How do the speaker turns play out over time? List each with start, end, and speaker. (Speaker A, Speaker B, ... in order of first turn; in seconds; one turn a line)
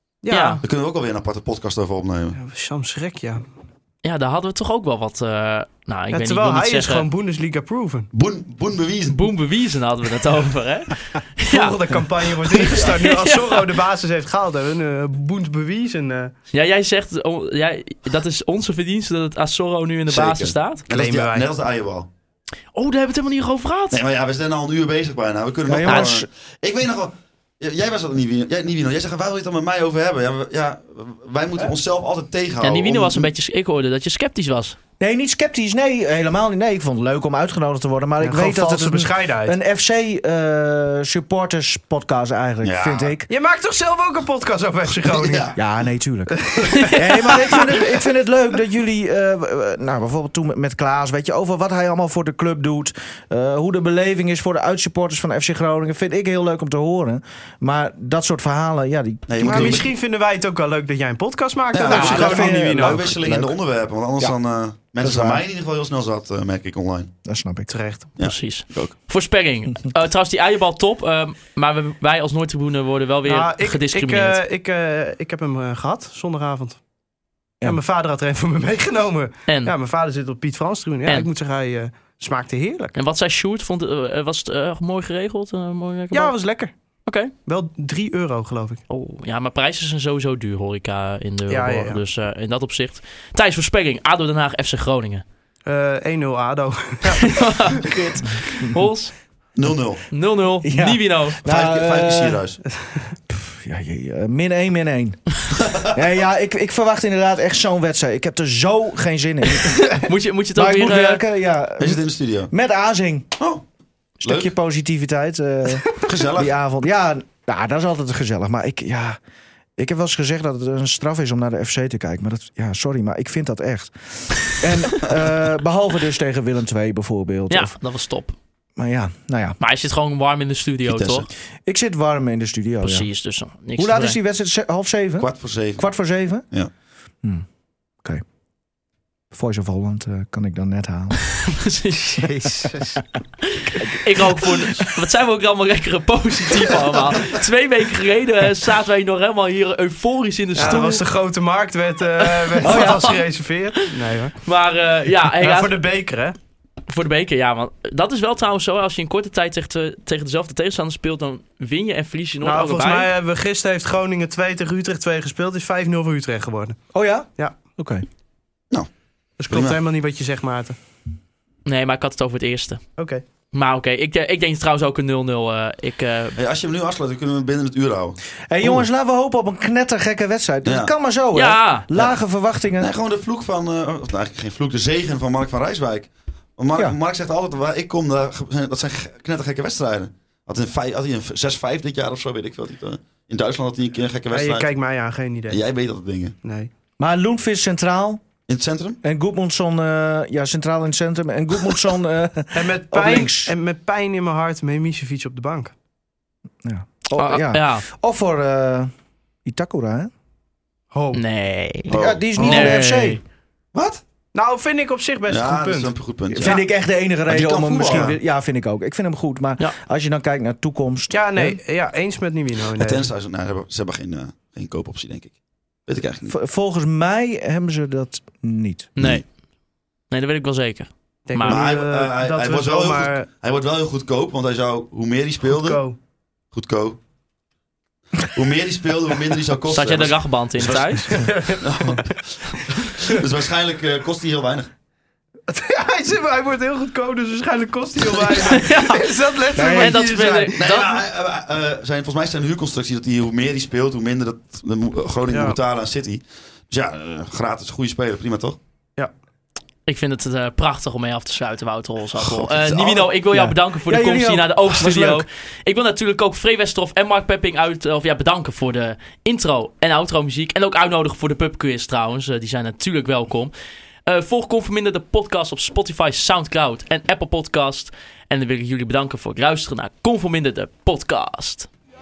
Speaker A: 0.2-0.6
Speaker B: 0.3-0.6
Speaker C: 0.6-2.4
Speaker A: 2.3-3.4
Speaker B: 4.0-7.1
Speaker A: 6.1-8.1
Speaker C: 8.1-9.3
Speaker B: 9.1-11.8
Speaker A: 11.5-16.3
Speaker B: 12.7-13.7
Speaker B: 16.5-20.8
Speaker C: 20.1-22.1
Speaker A: 20.9-21.5
Speaker B: 22.7-24.0
Speaker C: 23.9-33.3
Speaker D: 25.7-26.3
Speaker B: 25.8-26.1
Speaker B: 32.6-34.8
Speaker D: 35.0-43.3
Speaker A: 38.2-39.6
Speaker C: 42.6-43.1
Speaker A: 43.3-45.5
Speaker C: 45.1-45.6
Speaker D: 45.5-59.8
Speaker A: 46.4-47.9
Speaker C: 59.3-59.9
Speaker A: 59.4-63.1
Speaker C: 61.7-67.1
Speaker D: 61.8-63.5
Speaker D: 65.0-65.4
Speaker D: 67.2-67.7
Speaker A: 67.7-68.1
Speaker C: 68.2-68.9
Speaker B: 68.2-74.4
Speaker A: 73.2-76.8
Speaker A: 77.6-83.0
Speaker B: 79.5-79.7
Speaker B: 83.0-86.3
Speaker A: 86.1-86.7
Speaker B: 87.0-87.3
Speaker A: 87.4-88.8
Speaker B: 88.9-95.2
Speaker A: 91.5-92.0
Speaker A: 95.7-97.8
Speaker B: 97.1-99.1
Speaker C: 99.5-100.0
Speaker B: 100.1-101.4
Speaker D: 100.6-102.4
Speaker C: 101.4-102.6
Speaker D: 103.3-110.0
Speaker C: 105.6-105.9
Speaker B: 110.0-111.2
Speaker D: 110.5-113.3
Speaker C: 111.8-112.5
Speaker C: 113.4-113.6
Speaker D: 114.2-119.2
Speaker C: 114.2-114.5
Speaker C: 116.0-116.5
Speaker D: 119.8-127.8
Speaker B: 127.5-128.4
Speaker D: 128.8-129.6
Speaker B: 129.6-131.3
Speaker C: 130.8-131.3
Speaker D: 131.7-133.1
Speaker B: 132.8-134.2
Speaker D: 133.8-136.4
Speaker C: 135.2-135.9
Speaker D: 139.3-141.2
Speaker B: 141.5-142.3
Speaker A: 142.2-143.0
Speaker B: 143.4-151.0
Speaker A: 150.6-154.4
Speaker B: 152.2-153.2
Speaker D: 152.6-153.1
Speaker B: 154.4-155.8
Speaker A: 155.4-156.3
Speaker B: 156.9-163.1
Speaker A: 162.4-166.8
Speaker D: 166.9-168.0
Speaker A: 169.4-170.8
Speaker C: 169.5-169.8
Speaker B: 171.7-172.8
Speaker A: 173.0-173.2
Speaker B: 173.5-176.4
Speaker C: 176.4-178.9
Speaker D: 178.5-182.9
Speaker C: 180.6-180.9
Speaker B: 181.3-181.9
Speaker C: 182.8-194.7
Speaker A: 194.3-195.6
Speaker C: 195.5-196.3
Speaker A: 196.4-196.7
Speaker D: 197.0-198.2
Speaker C: 198.5-199.0
Speaker D: 199.0-203.5
Speaker A: 202.5-205.7
Speaker D: 206.6-208.9
Speaker B: 207.1-207.8
Speaker D: 209.4-210.1
Speaker A: 210.9-211.2
Speaker B: 211.1-213.2
Speaker C: 211.9-212.2
Speaker D: 211.9-213.2
Speaker A: 212.4-212.8
Speaker C: 213.7-214.0
Speaker A: 214.3-216.6
Speaker C: 215.3-216.6
Speaker D: 216.3-221.6
Speaker C: 217.3-218.2
Speaker A: 217.7-218.1
Speaker A: 221.1-223.1
Speaker C: 222.8-225.3
Speaker C: 225.8-226.3
Speaker D: 226.3-228.9
Speaker C: 229.0-229.2
Speaker B: 229.0-229.2
Speaker B: 230.1-231.6
Speaker A: 231.3-233.3
Speaker C: 231.4-235.8
Speaker A: 235.5-236.0
Speaker C: 236.5-237.0
Speaker C: 238.2-240.8
Speaker B: 239.7-241.1
Speaker A: 240.7-242.0
Speaker C: 241.6-244.7
Speaker A: 245.5-250.6
Speaker C: 248.0-248.4
Speaker B: 248.4-251.0
Speaker D: 249.5-250.0
Speaker C: 250.6-258.6
Speaker A: 255.3-255.6
Speaker B: 259.9-273.5
Speaker C: 262.2-263.1
Speaker D: 263.3-265.2
Speaker B: 274.1-281.7